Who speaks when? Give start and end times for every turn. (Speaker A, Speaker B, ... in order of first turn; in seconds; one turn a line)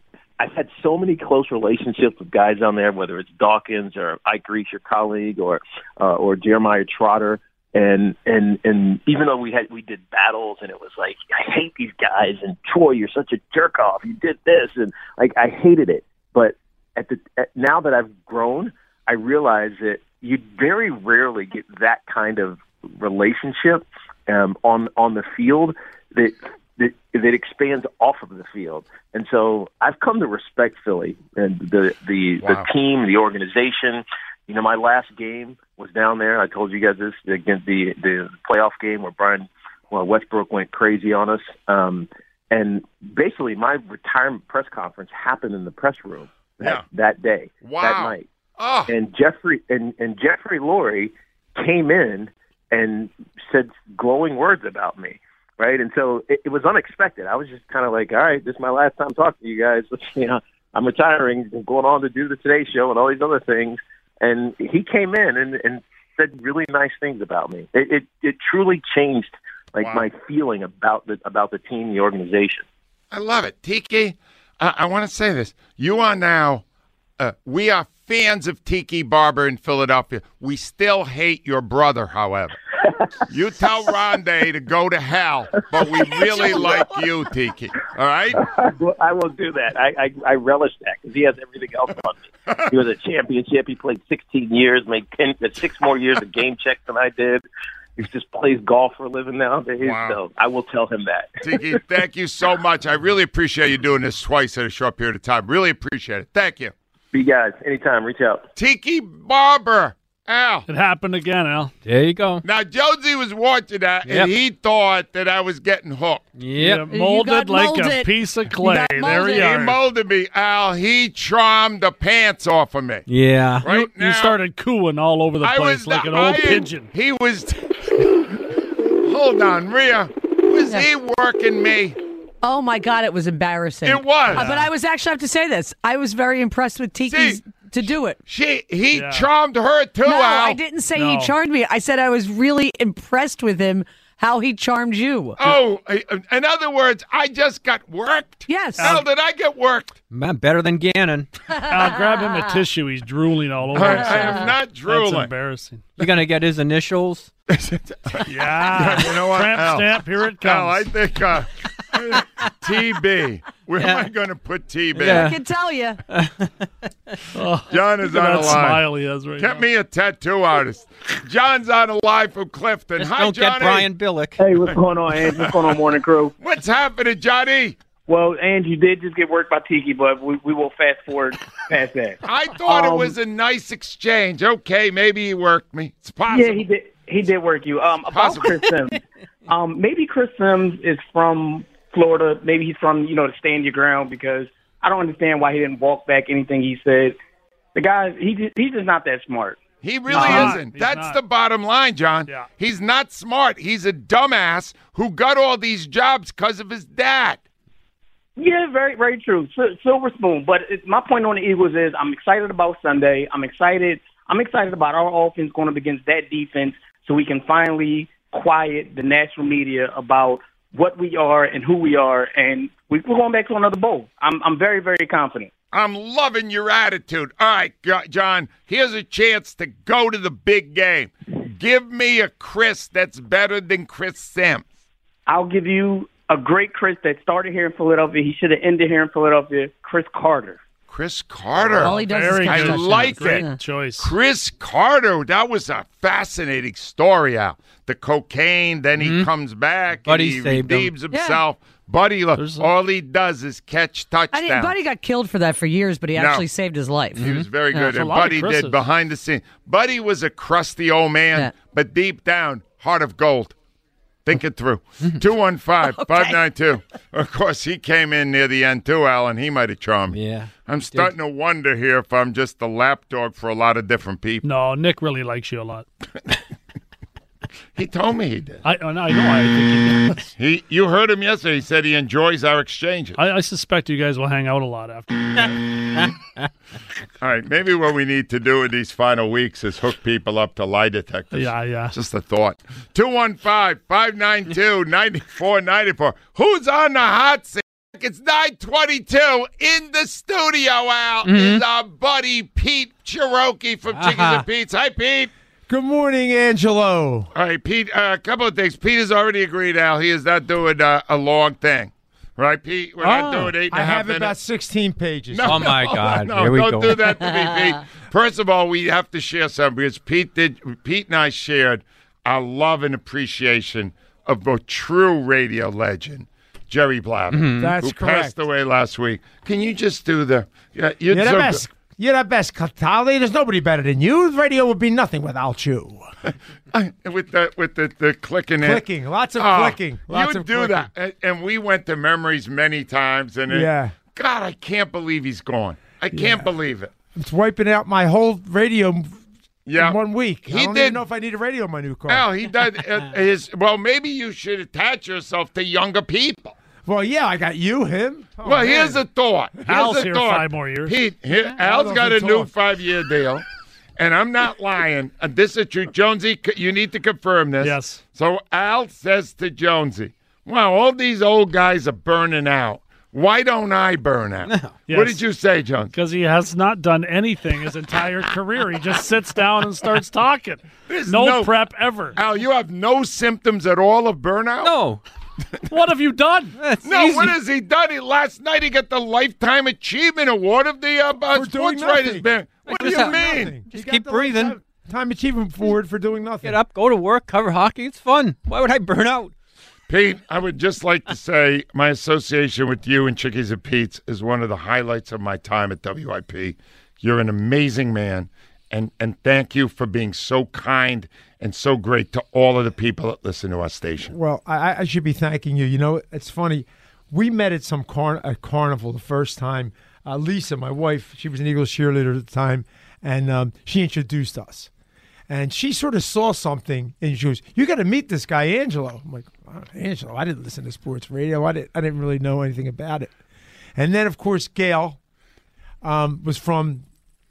Speaker A: 0.4-48.3
Speaker B: 47.6-48.9
Speaker A: 48.9-72.7
Speaker B: 69.8-70.1
Speaker B: 73.1-76.6
Speaker B: 77.2-82.5
Speaker B: 83.3-88.5
Speaker A: 86.2-86.6
Speaker A: 88.4-97.5
Speaker A: 98.0-101.4
Speaker B: 99.8-100.2
Speaker B: 101.4-106.7
Speaker A: 107.1-108.5
Speaker B: 108.6-110.7
Speaker C: 110.7-111.7
Speaker D: 111.8-112.4
Speaker B: 112.4-116.3
Speaker D: 114.1-114.3
Speaker D: 116.4-116.9
Speaker C: 116.6-119.8
Speaker E: 116.9-119.5
Speaker B: 119.2-123.1
Speaker D: 123.1-123.7
Speaker B: 123.6-124.4
Speaker C: 123.7-126.9
Speaker B: 125.4-132.0
Speaker E: 132.4-138.2
Speaker B: 133.8-134.5
Speaker C: 134.3-134.7
Speaker B: 137.1-137.4
Speaker B: 138.2-140.6
Speaker C: 138.9-139.3
Speaker E: 140.1-145.5
Speaker C: 140.9-141.3
Speaker B: 145.4-149.9
Speaker E: 148.5-148.9
Speaker C: 148.8-149.1
Speaker D: 150.1-151.3
Speaker E: 151.5-152.5
Speaker C: 151.7-155.8
Speaker B: 153.7-155.3
Speaker D: 156.0-157.3
Speaker B: 157.5-165.3
Speaker C: 158.2-160.9
Speaker D: 163.8-164.1
Speaker D: 165.0-165.4
Speaker E: 165.1-166.0
Speaker D: 166.1-166.7
Speaker C: 167.3-169.7
Speaker B: 167.7-168.8
Speaker B: 169.4-173.9
Speaker D: 173.0-174.4
Speaker F: 174.4-176.3
Speaker B: 176.4-177.8
Speaker F: 178.1-183.2
Speaker B: 182.2-186.7
Speaker F: 186.3-197.2
Speaker B: 188.1-188.7
Speaker F: 197.8-199.6
Speaker B: 199.8-207.4
Speaker C: 200.1-201.2
Speaker F: 200.1-200.6
Speaker F: 208.4-225.5
Speaker B: 225.7-234.6
Speaker F: 235.3-240.6
Speaker B: 240.9-243.5
Speaker E: 241.8-243.6
Speaker C: 241.8-244.1
Speaker B: 244.0-254.7
Speaker D: 249.0-249.3
Speaker D: 250.0-250.9
Speaker E: 251.1-251.4
Speaker C: 252.4-252.7
Speaker E: 254.3-257.3
Speaker B: 256.2-256.4
Speaker D: 257.2-257.5
Speaker B: 257.2-263.5
Speaker C: 257.8-258.8
Speaker B: 264.2-274.4
Speaker E: 265.8-266.4
Speaker D: 270.1-271.1
Speaker C: 274.4-275.9
Speaker B: 277.8-278.6
Speaker C: 278.6-280.3
Speaker B: 280.4-283.2
Speaker C: 283.2-285.6
Speaker B: 287.2-305.3
Speaker C: 291.3-291.9
Speaker D: 301.2-301.6
Speaker D: 303.9-304.4
Speaker G: 305.7-307.3
Speaker B: 307.3-314.3
Speaker D: 313.0-313.6
Speaker G: 313.7-315.8
Speaker B: 315.3-331.6
Speaker D: 315.4-317.2
Speaker D: 327.3-327.7
Speaker G: 327.6-328.4
Speaker G: 331.1-336.1
Speaker B: 336.7-338.8
Speaker G: 338.6-340.9
Speaker B: 339.4-346.9
Speaker G: 343.5-344.0
Speaker G: 346.1-346.5
Speaker G: 347.1-349.2
Speaker B: 349.7-351.0
Speaker G: 349.8-352.2
Speaker B: 352.1-356.6
Speaker G: 356.9-359.0
Speaker B: 358.4-363.4
Speaker C: 359.7-361.0
Speaker G: 361.4-362.5
Speaker B: 364.0-375.9
Speaker C: 367.6-368.0
Speaker D: 374.5-374.8
Speaker C: 374.9-375.2
Speaker C: 375.9-382.2
Speaker B: 380.9-381.5
Speaker B: 382.1-384.8
Speaker D: 384.6-385.0
Speaker C: 385.7-386.6
Speaker D: 386.6-387.4
Speaker B: 386.8-393.6
Speaker G: 391.3-396.6
Speaker D: 392.7-394.6
Speaker D: 396.4-399.3
Speaker B: 399.9-414.1
Speaker G: 414.1-424.7
Speaker G: 425.3-433.1
Speaker G: 433.8-435.0
Speaker G: 435.8-436.9